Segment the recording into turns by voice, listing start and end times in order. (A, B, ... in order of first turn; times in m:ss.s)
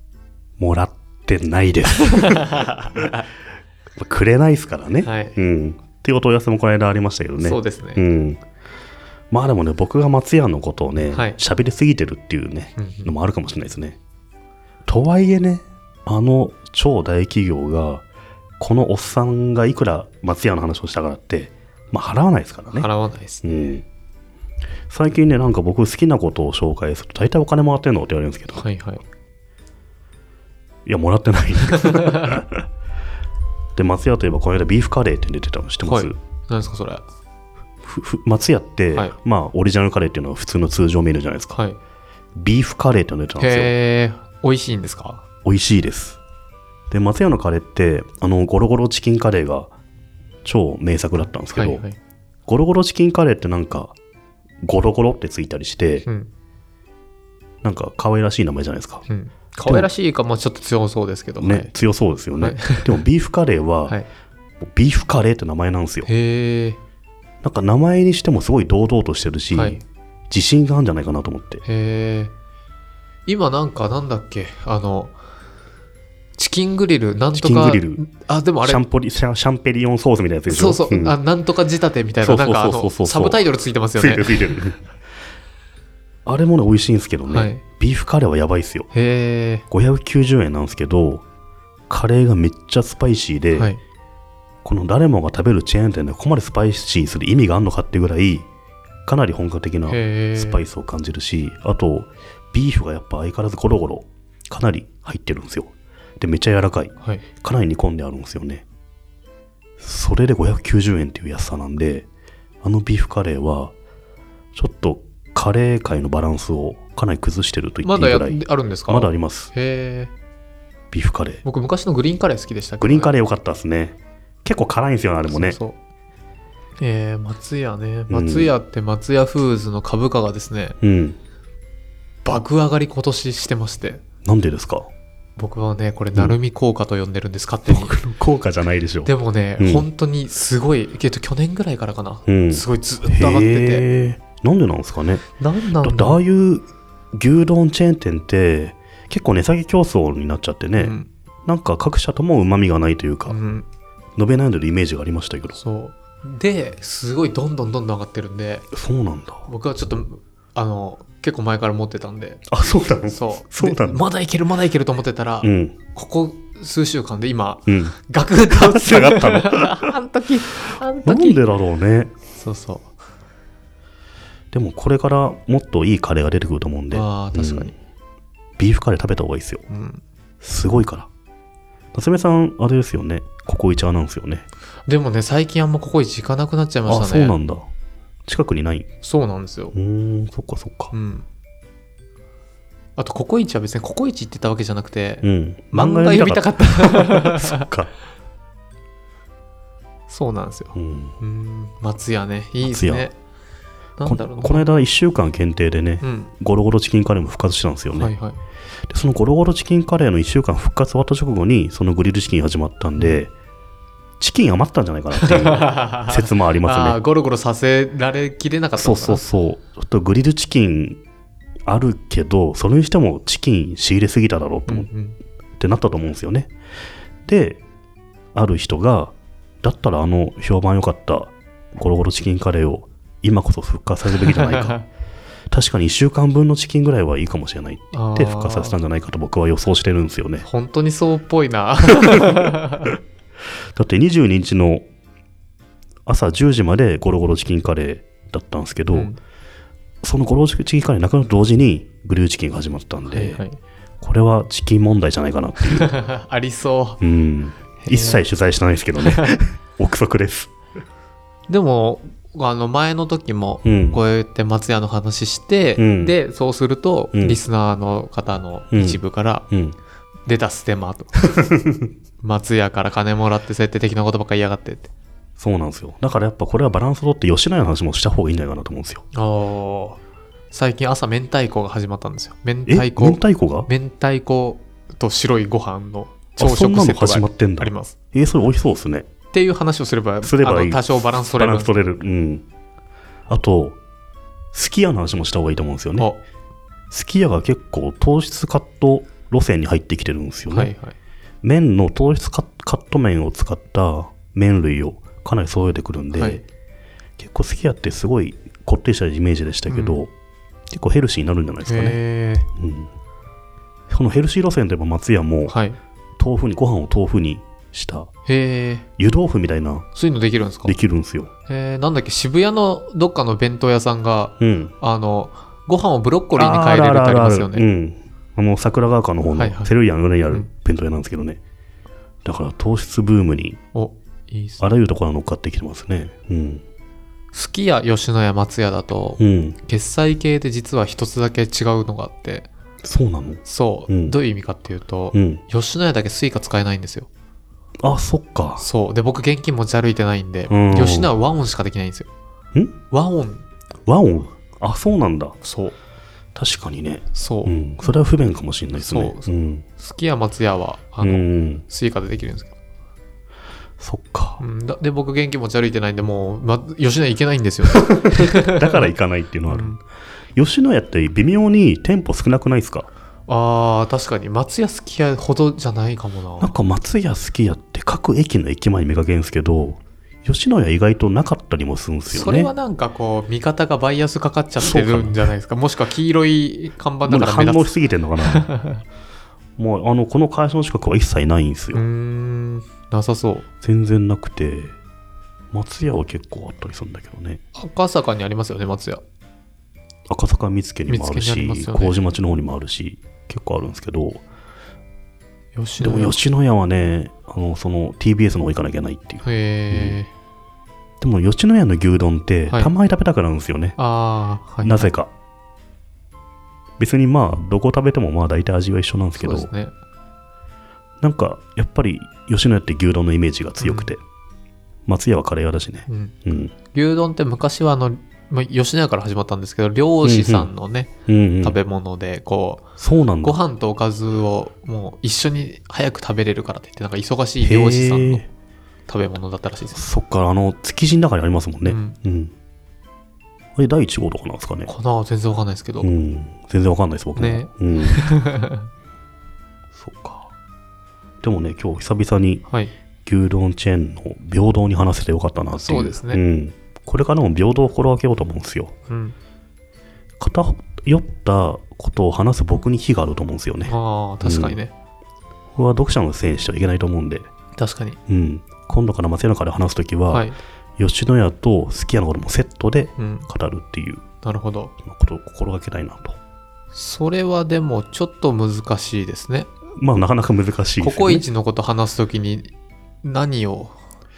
0:00.6-0:03.0 A
0:02.1-0:03.2 B
0:04.0-0:08.4 A
0:05.0-0:05.4 B
0:07.4-0:08.0 B
0:09.3-0:14.0 A
0:11.1-0:11.4 B
0:12.8-0:13.1 B
0:14.9-0:18.0 A
0:18.6-0:22.9 A
0:22.7-0:23.7 B
0:23.4-0:23.8 A
0:24.9-0:28.6 A
0:28.6-0:29.0 B
0:30.8-0:32.6 A
0:31.9-0:32.2 B
0:33.7-0:36.1 A
0:35.8-0:37.0 B
0:37.8-0:41.6 A
0:42.3-0:43.7 A
0:43.4-0:45.2 B
0:45.4-0:46.2 A
0:46.9-0:49.7 A
0:50.4-0:51.8 A
0:51.5-0:52.0 B
0:52.5-0:54.0 A
0:54.6-0:56.0 A
0:56.0-0:56.3 B
0:57.6-0:59.0 A
0:59.1-1:01.7 B
0:59.6-0:59.9 A
1:01.4-1:04.0 A
1:02.4-1:03.0 B
1:04.6-1:06.1 A
1:06.0-1:06.8 B
1:07.4-1:11.6 A
1:09.5-1:09.8 B
1:11.6-1:12.3 B
1:13.2-1:15.2 B
1:16.4-1:18.8 B
1:17.3-1:18.0 A
1:18.6-1:21.2 A
1:20.5-1:24.5 B
1:22.2-1:23.4 A
1:24.0-1:24.8 A
1:26.2-1:28.9 A
1:27.3-1:27.6 B
1:28.9-1:29.6 B
1:29.7-1:31.2 A
1:31.9-1:33.7 A
1:33.5-1:33.8 B
1:34.6-1:38.5 A
1:39.0-1:48.6 A
1:39.9-1:40.6 B
1:49.8-1:52.1 A
1:52.6-1:53.7 A
1:54.5-1:59.5 A
1:57.8-2:00.1 B
2:00.9-2:01.4 A
2:01.4-2:03.1 B
2:02.8-2:05.6 A
2:05.3-2:05.8 B
2:06.8-2:10.8 B
2:08.1-2:08.5 A
2:10.8-2:11.2 A
2:12.2-2:14.0 B
2:14.2-2:14.9 A
2:15.4-2:18.0 B
2:17.7-2:19.8 A
2:19.0-2:23.9 B
2:22.2-2:25.3 A
2:25.4-2:26.2 B
2:25.8-2:33.4 A
2:30.8-2:31.1 B
2:33.3-2:33.6 B
2:34.2-2:35.6 A
2:35.5-2:38.7 B
2:38.7-2:39.5 A
2:39.4-2:42.4 B
2:42.5-2:44.0 A
2:43.1-2:51.4 B
2:45.4-2:45.8 A
2:47.7-2:48.0 A
2:48.5-2:49.9 A
2:50.6-2:52.1 A
2:52.4-2:52.9 B
2:54.5-2:57.7 A
2:56.9-2:57.7 B
2:58.6-2:59.6 A
2:59.7-3:00.0 B
3:00.4-3:01.1 A
3:01.9-3:04.4 A
3:04.9-3:07.4 B
3:06.9-3:07.6 A
3:08.2-3:08.9 A
3:09.0-3:09.7 B
3:09.7-3:10.9 A
3:10.9-3:11.2 B
3:13.0-3:17.6 B
3:15.2-3:17.9 A
3:20.1-3:23.1 B
3:20.7-3:21.2 A
3:22.6-3:23.1 A
3:24.0-3:24.7 B
3:24.0-3:28.1 A
3:26.0-3:26.3 B
3:27.9-3:28.4 B
3:28.9-3:33.3 A
3:34.2-3:37.0 A
3:35.2-3:39.2 B
3:38.8-3:41.0 A
3:41.7-3:44.9 A
3:44.7-3:45.2 B
3:45.6-3:46.5 A
3:47.2-3:47.6 A
3:48.3-3:54.8 A
3:54.2-3:54.8 B
3:55.5-4:00.5 A
3:57.9-3:58.8 B
4:00.4-4:02.9 B
4:02.1-4:02.9 A
4:03.8-4:04.8 A
4:06.0-4:09.1 A
4:08.9-4:09.2 B
4:10.0-4:13.4 A
4:13.1-4:13.6 B
4:14.0-4:15.9 A
4:15.7-4:17.0 B
4:17.0-4:20.5 A
4:17.8-4:18.2 B
4:19.0-4:19.3 B
4:21.5-4:29.5 B
4:23.6-4:24.0 A
4:25.8-4:26.1 A
4:27.1-4:27.4 A
4:28.7-4:29.8 A
4:30.3-4:31.4 B
4:31.5-4:31.8 A
4:32.2-4:34.9 B
4:35.4-4:39.0 A
4:39.1-4:40.0 B
4:40.5-4:47.9 B
4:42.6-4:43.7 A
4:46.4-4:49.0 A
4:49.3-4:51.7 B
4:50.2-4:52.4 A
4:53.3-4:53.8 A
4:54.5-4:56.1 A
4:56.9-5:00.7 A
5:00.5-5:01.0 B
5:01.4-5:06.4 A
5:06.1-5:06.4 B
5:07.2-5:10.1 A
5:09.7-5:10.0 B
5:10.7-5:12.0 A
5:11.6-5:12.4 B
5:12.6-5:12.9 A
5:13.9-5:15.5 A
5:15.5-5:15.8 B
5:16.2-5:18.1 A
5:18.2-5:18.8 B
5:19.0-5:19.8 A
5:19.9-5:20.7 B
5:20.6-5:21.3 A
5:21.5-5:27.6 B
5:24.4-5:24.7 A
5:26.4-5:31.4 A
5:29.3-5:29.7 B
5:32.2-5:33.6 A
5:33.7-5:34.7 B
5:34.6-5:36.6 A
5:37.3-5:42.5 B
5:39.2-5:39.6 A
5:42.8-5:44.1 A
5:43.4-5:47.1 B
5:45.1-5:45.4 A
5:47.8-5:48.6 A
5:48.6-5:52.1 B
5:50.5-5:51.1 A
5:52.9-5:53.4 B
5:53.8-5:55.4 A
5:55.4-5:55.7 B
5:56.3-5:59.6 A
5:57.1-5:57.6 B
5:58.8-6:02.5 B
6:01.0-6:01.6 A
6:03.8-6:04.4 A
6:04.4-6:08.9 B
6:07.8-6:09.8 A
6:09.5-6:09.8 B
6:10.3-6:12.9 A
6:13.3-6:16.5 B
6:16.4-6:22.5 A
6:22.1-6:28.8 B
6:24.6-6:25.3 A
6:27.0-6:28.5 A
6:29.6-6:31.8 A
6:31.7-6:33.4 B
6:33.6-6:34.8 A
6:35.5-6:37.4 A
6:37.5-6:39.0 B
6:40.1-6:44.2 A
6:40.9-6:42.0 B
6:45.5-6:46.2 B
6:45.8-6:50.0 A
6:49.2-6:50.1 B
6:51.0-6:53.8 A
6:53.8-6:54.9 B
6:54.6-6:55.1 A
6:56.8-6:59.5 A
6:59.2-6:59.7 B
7:01.0-7:04.0 A
7:03.6-7:03.9 B
7:04.9-7:06.5 A
7:05.9-7:06.2 B
7:06.7-7:12.6 B
7:10.0-7:10.5 A
7:11.1-7:11.6 A
7:12.8-7:13.4 A
7:13.2-7:18.2 B
7:17.4-7:18.3 A
7:18.9-7:19.8 B
7:19.7-7:22.3 A
7:21.6-7:22.0 B
7:23.6-7:24.7 A
7:24.7-7:25.9 B
7:25.8-7:28.1 A
7:27.2-7:28.7 B
7:29.7-7:30.3 A
7:31.2-7:32.4 A
7:33.0-7:38.7 A
7:35.5-7:36.2 B
7:38.9-7:39.2 B
7:40.2-7:44.6 A
7:43.7-7:44.7 B
7:45.5-7:47.3 A
7:47.6-7:48.0 B
7:48.1-7:54.0 A
7:50.1-7:50.4 B
7:53.0-7:53.3 B
7:54.2-7:54.7 B
7:54.8-7:56.2 A
7:56.7-7:59.5 B
7:59.8-8:01.2 A
8:00.8-8:02.5 B
8:03.0-8:03.8 B